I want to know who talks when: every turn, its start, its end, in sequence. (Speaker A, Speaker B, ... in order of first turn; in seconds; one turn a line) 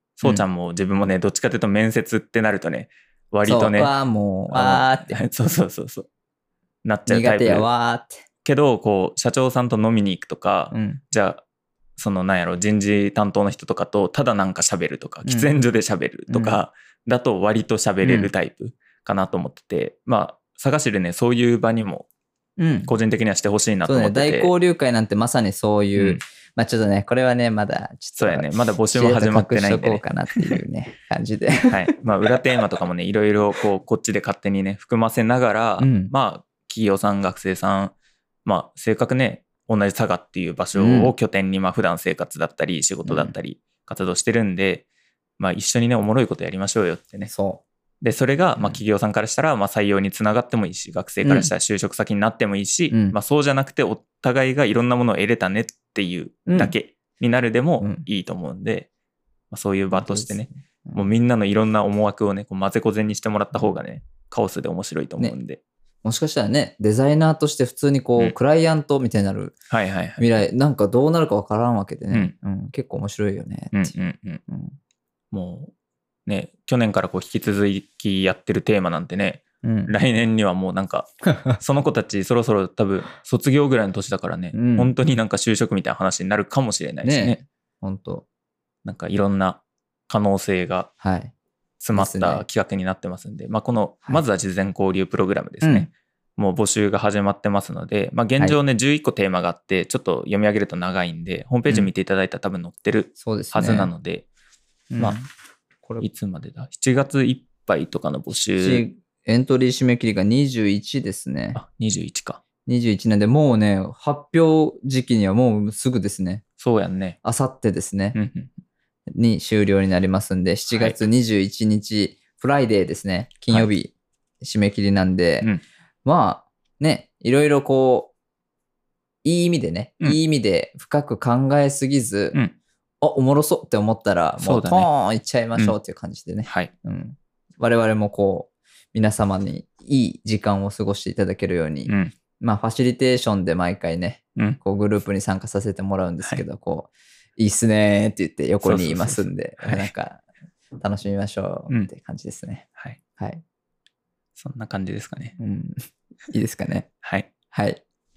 Speaker A: 0.2-3.9
Speaker B: 3.5-5.2
Speaker A: 4.5-6.1
Speaker A: 6.8-7.7
Speaker B: 7.1-8.2
Speaker A: 8.4-11.4
Speaker B: 10.7-11.0
Speaker A: 12.0-22.1
Speaker B: 15.2-15.5
Speaker B: 16.3-16.6
Speaker B: 18.0-18.3
Speaker B: 22.6-22.9
Speaker A: 22.9-24.5
Speaker B: 23.9-32.6
Speaker A: 26.0-26.2
Speaker A: 28.2-30.6
Speaker A: 31.7-37.9
Speaker B: 35.8-36.1
Speaker A: 38.5-44.9
Speaker B: 40.8-41.1
Speaker B: 43.0-43.4
Speaker A: 45.4-47.3
Speaker B: 47.3-47.6
Speaker A: 48.0-58.9
Speaker B: 51.2-51.5
Speaker B: 52.9-53.2
Speaker B: 56.5-56.7
Speaker A: 59.5-65.6
Speaker B: 59.9-61.0
Speaker B: 66.0-69.5
Speaker A: 69.7-70.4
Speaker B: 70.2-73.9
Speaker A: 73.7-74.4
Speaker B: 74.5-74.8
Speaker A: 75.3-75.7
Speaker A: 76.3-87.4
Speaker B: 79.6-79.9
Speaker B: 84.5-84.9
Speaker B: 87.0-88.2
Speaker A: 88.8-90.9
Speaker B: 91.0-91.3
Speaker A: 91.8-104.3
Speaker B: 92.0-92.4
Speaker B: 95.6-95.9
Speaker B: 103.2-103.9
Speaker B: 104.9-105.3
Speaker A: 106.0-108.8
Speaker B: 108.6-111.6
Speaker A: 111.5-112.4
Speaker B: 112.7-116.4
Speaker A: 116.6-117.2
Speaker B: 117.2-118.2
Speaker A: 118.2-118.5
Speaker B: 119.2-125.5
Speaker A: 120.7-121.0
Speaker B: 126.0-128.1
Speaker B: 129.2-132.4
Speaker B: 133.0-150.2
Speaker A: 134.4-134.9
Speaker A: 136.4-136.7
Speaker A: 141.9-142.1
Speaker A: 148.6-149.9
Speaker B: 150.8-152.7
Speaker B: 153.2-153.4
Speaker A: 154.4-155.4
Speaker B: 155.4-156.9
Speaker A: 157.0-157.3
Speaker B: 157.5-157.8